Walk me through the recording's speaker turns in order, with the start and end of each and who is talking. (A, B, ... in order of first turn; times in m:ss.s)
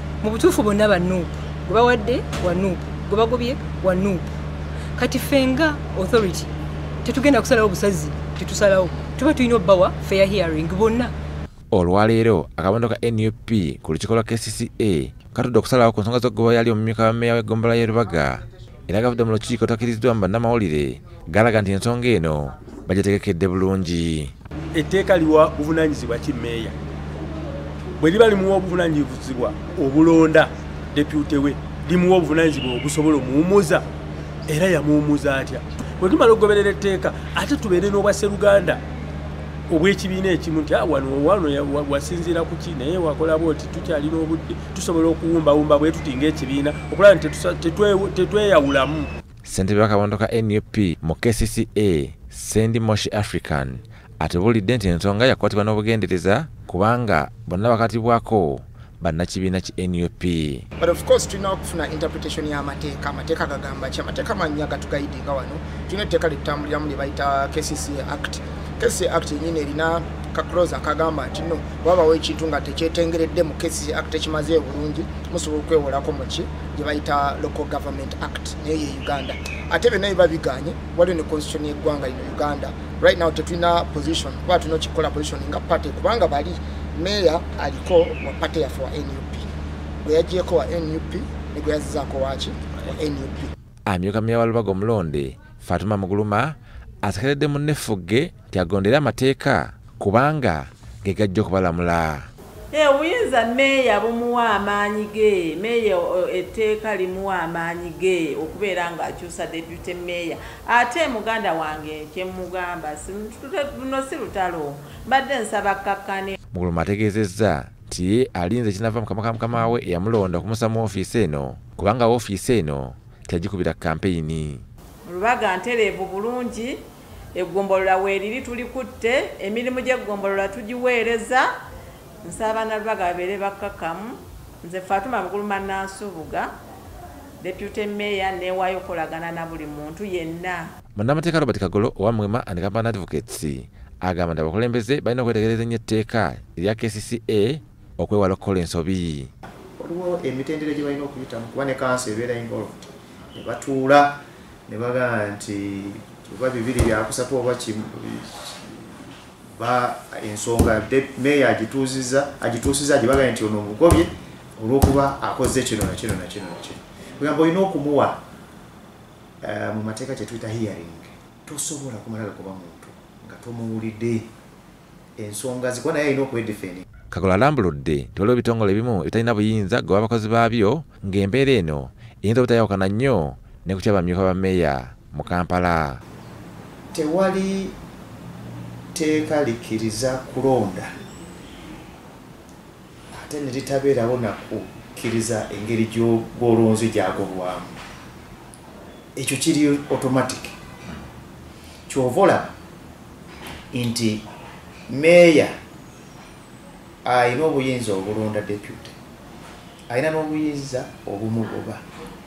0:00.2-0:04.3 A
0:05.0-0:06.5 A
0:07.0-0:11.2 A
0:11.7-0:24.3 B
0:24.7-0:26.8 C
0:28.0-0:33.9 C
0:34.5-0:38.8 C
0:39.7-0:49.1 C
0:49.5-1:00.7 B
1:00.8-1:29.5 D
1:30.0-1:33.5 D
1:33.9-1:42.3 B
1:42.7-1:56.4 E
1:56.5-2:04.7 B
2:05.1-2:06.8 E
2:07.4-2:11.5 E
2:12.2-2:16.5 E
2:17.4-2:20.7 E
2:21.0-2:29.3 B
2:29.8-2:48.2 F
2:49.4-2:54.3 F
2:55.2-2:56.9 F
2:57.1-3:06.0 B
3:06.9-3:07.7 F
3:08.9-3:11.0 F
3:13.1-3:17.8 F
3:19.2-3:20.6 F
3:21.9-3:22.5 F
3:23.7-3:24.2 F
3:24.9-3:25.6 F
3:27.0-3:28.9 F
3:29.9-3:31.8 F